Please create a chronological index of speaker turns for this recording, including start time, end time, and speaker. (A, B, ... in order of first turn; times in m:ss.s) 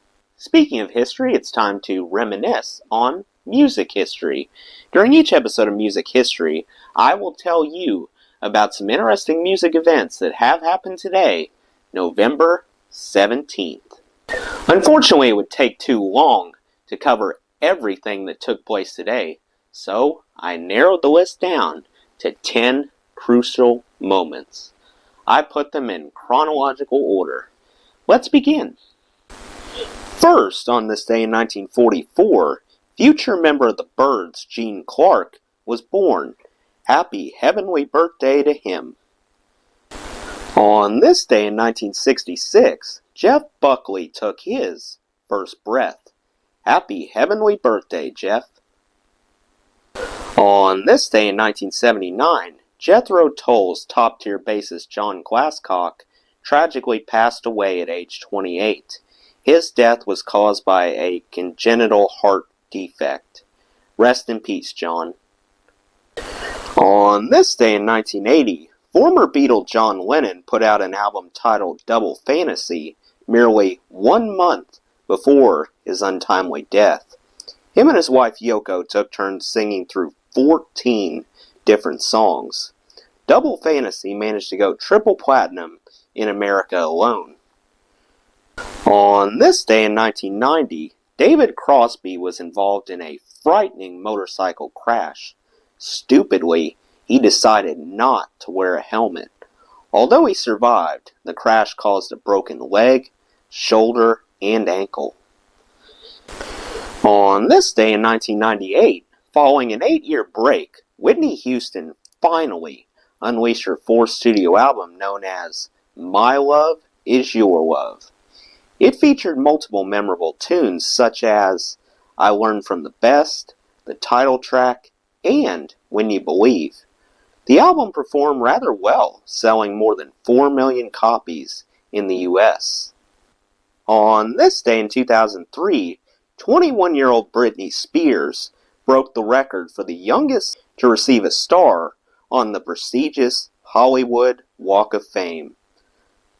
0:00.4-0:14.0 A
0:14.7-0:24.7 A
0:25.3-0:27.5 A
0:28.1-0:28.8 A
0:30.1-0:36.4 A
0:36.9-0:39.0 A
0:40.6-0:46.1 A
0:46.6-0:48.5 A
0:50.4-1:03.4 A
1:04.0-1:05.2 A
1:06.8-1:17.1 A
1:17.7-1:22.7 A
1:23.3-1:27.4 A
1:28.8-1:39.3 A
1:39.9-1:45.2 A
1:47.0-1:58.1 A
1:58.8-2:06.8 A
2:07.4-2:12.9 A
2:13.9-2:25.6 A